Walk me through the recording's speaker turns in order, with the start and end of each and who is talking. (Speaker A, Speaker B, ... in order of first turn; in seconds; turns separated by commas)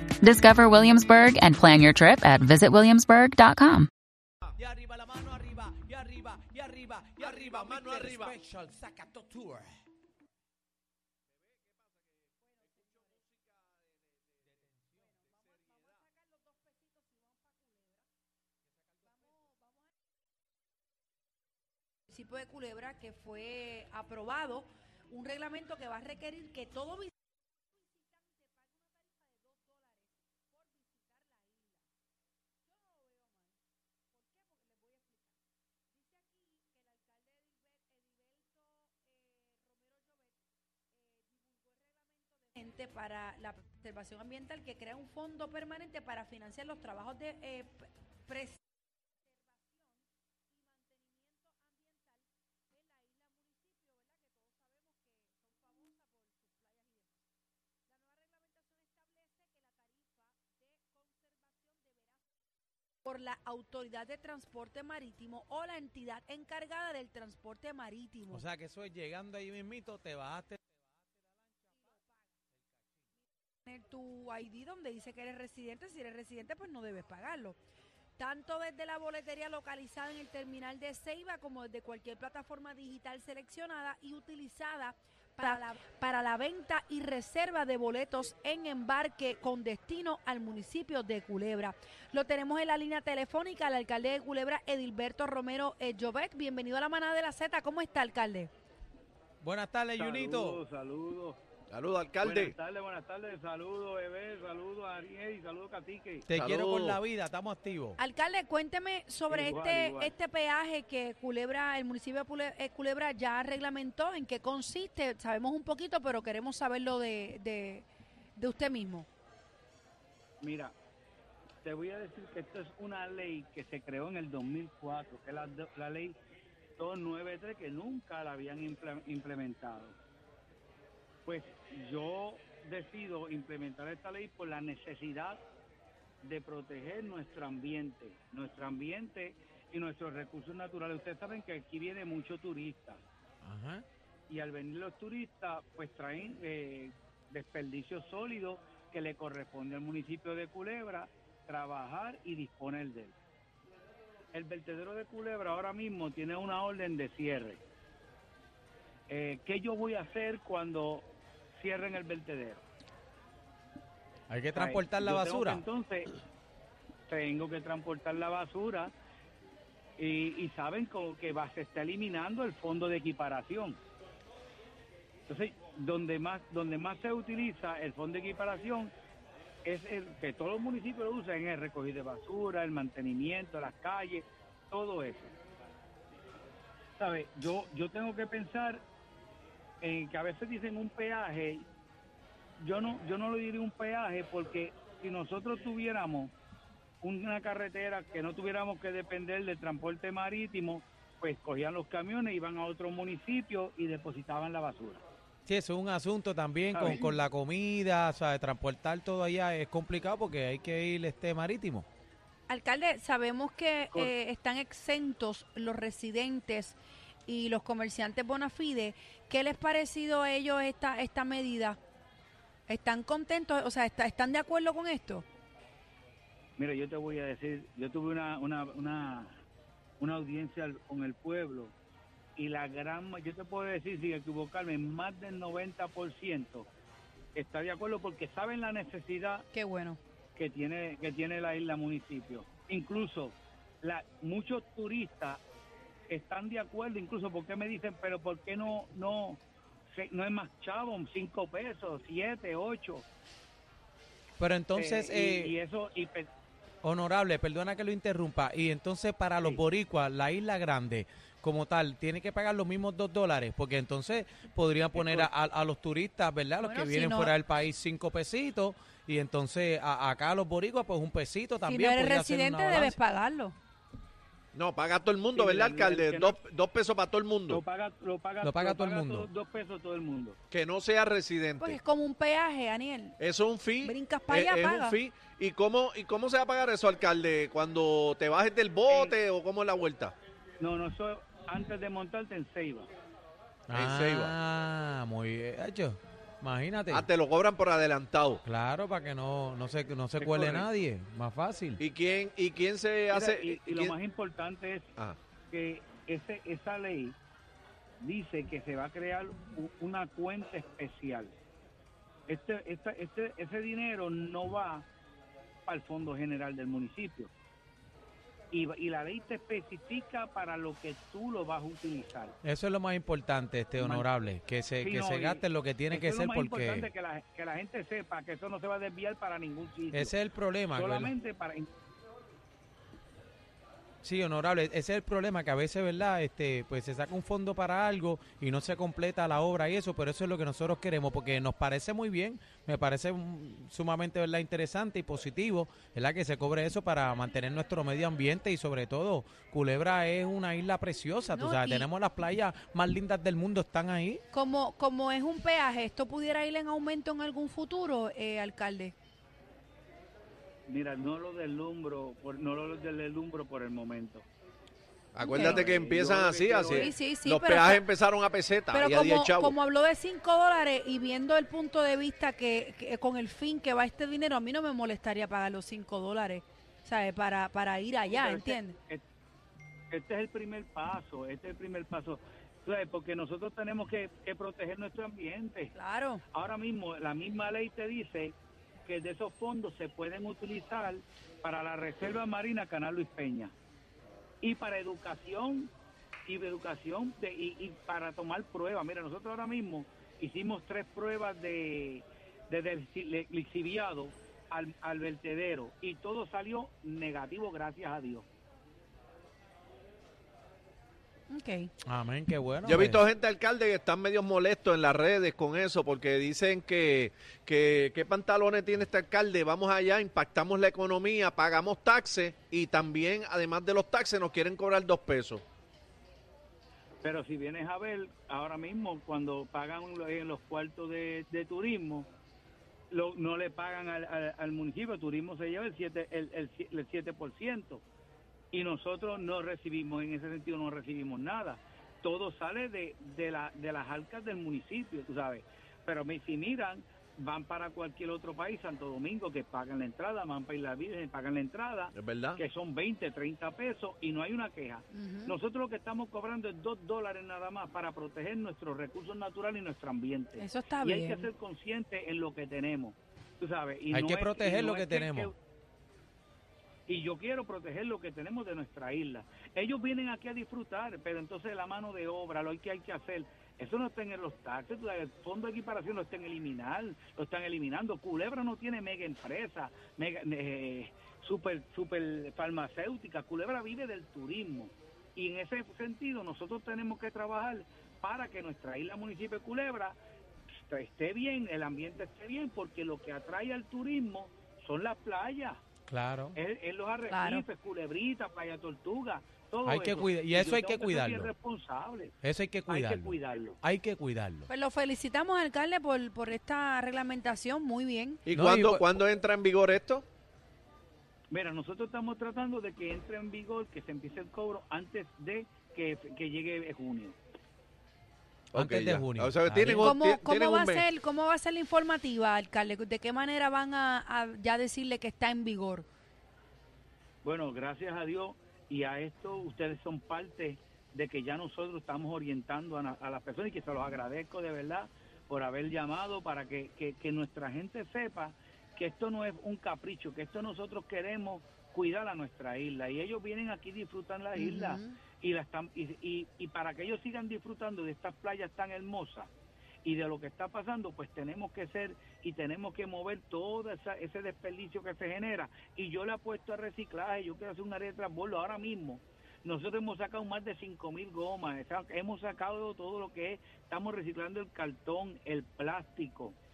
Speaker A: 0.2-3.9, Speaker B: 4.6-9.8, Speaker C: 7.2-8.4, Speaker C: 11.4-13.9, Speaker B: 14.5-15.2, Speaker B: 19.0-19.3, Speaker D: 22.1-27.1, Speaker D: 42.5-48.6, Speaker D: 63.0-68.4, Speaker B: 68.3-70.9, Speaker D: 73.7-77.6, Speaker D: 78.2-98.5, Speaker B: 99.4-100.6, Speaker E: 100.0-101.4, Speaker C: 101.7-102.5, Speaker E: 102.2-106.2, Speaker B: 106.3-108.0, Speaker C: 106.3-107.0, Speaker D: 108.0-119.1, Speaker E: 109.3-110.1, Speaker E: 120.4-120.7, Speaker E: 121.6-126.2, Speaker E: 126.8-129.9, Speaker E: 131.2-135.4, Speaker E: 136.2-143.0, Speaker B: 143.4-143.8, Speaker E: 144.3-153.1, Speaker E: 154.3-157.6, Speaker E: 159.1-162.6, Speaker B: 164.3-165.6, Speaker E: 164.5-166.1, Speaker E: 167.1-168.9, Speaker E: 170.0-173.8, Speaker E: 175.3-178.9, Speaker E: 179.6-185.3, Speaker E: 187.0-188.8, Speaker E: 189.8-191.7, Speaker E: 192.6-196.3, Speaker E: 197.0-205.0, Speaker B: 205.4-211.8, Speaker E: 206.7-207.1, Speaker D: 212.5-221.8, Speaker D: 222.7-225.2, Speaker E: 226.6-229.4, Speaker E: 230.0-231.7, Speaker E: 232.4-236.7, Speaker E: 237.3-239.4, Speaker D: 239.5-240.0, Speaker E: 240.3-245.4, Speaker E: 246.1-253.1, Speaker B: 254.4-255.5, Speaker E: 254.8-256.3, Speaker B: 256.8-273.0, Speaker E: 264.9-265.3, Speaker D: 266.6-267.3, Speaker D: 271.6-273.6, Speaker C: 274.5-277.6, Speaker E: 275.3-276.4, Speaker E: 277.5-280.4, Speaker B: 278.4-279.3, Speaker C: 280.5-281.8, Speaker D: 281.6-283.2, Speaker C: 283.2-290.1, Speaker D: 283.8-285.0, Speaker E: 288.9-289.1, Speaker E: 290.6-292.9, Speaker B: 293.7-297.0, Speaker C: 293.7-294.3, Speaker C: 296.9-298.4, Speaker B: 298.4-301.8, Speaker C: 300.2-300.6, Speaker C: 301.8-303.9, Speaker E: 303.1-304.9, Speaker E: 305.5-307.1, Speaker E: 308.0-311.3, Speaker E: 312.3-314.8, Speaker E: 315.7-317.3, Speaker E: 318.5-322.3, Speaker B: 322.4-326.9, Speaker E: 323.8-324.1, Speaker E: 324.8-330.1, Speaker B: 329.9-331.1, Speaker E: 330.7-331.7, Speaker B: 334.0-354.2, Speaker D: 351.3-351.9, Speaker D: 354.3-358.9, Speaker E: 360.7-364.2, Speaker C: 365.1-369.6, Speaker D: 365.2-365.7, Speaker E: 365.3-366.9, Speaker D: 366.7-367.8, Speaker D: 368.7-378.8, Speaker E: 378.1-379.0, Speaker E: 379.9-385.7, Speaker D: 385.7-386.2, Speaker E: 386.3-393.5, Speaker E: 394.4-395.7, Speaker E: 396.2-408.3, Speaker D: 411.3-411.7, Speaker B: 411.9-413.0, Speaker C: 412.6-425.4, Speaker E: 427.0-432.1, Speaker E: 432.9-437.8, Speaker E: 438.5-465.3, Speaker C: 451.9-452.4, Speaker D: 454.9-455.3, Speaker D: 460.4-461.3, Speaker B: 463.9-465.3, Speaker E: 466.9-489.9, Speaker E: 490.7-495.6, Speaker B: 495.9-496.4, Speaker E: 496.4-502.1, Speaker D: 497.1-497.4, Speaker B: 499.6-501.3, Speaker B: 502.2-504.5, Speaker E: 502.7-503.6, Speaker D: 504.5-508.2, Speaker C: 508.2-510.0, Speaker B: 508.3-508.8, Speaker E: 511.3-517.2, Speaker B: 518.5-519.9, Speaker C: 518.5-520.8, Speaker D: 519.8-525.9, Speaker E: 527.2-549.3, Speaker D: 544.4-545.0, Speaker E: 549.8-566.4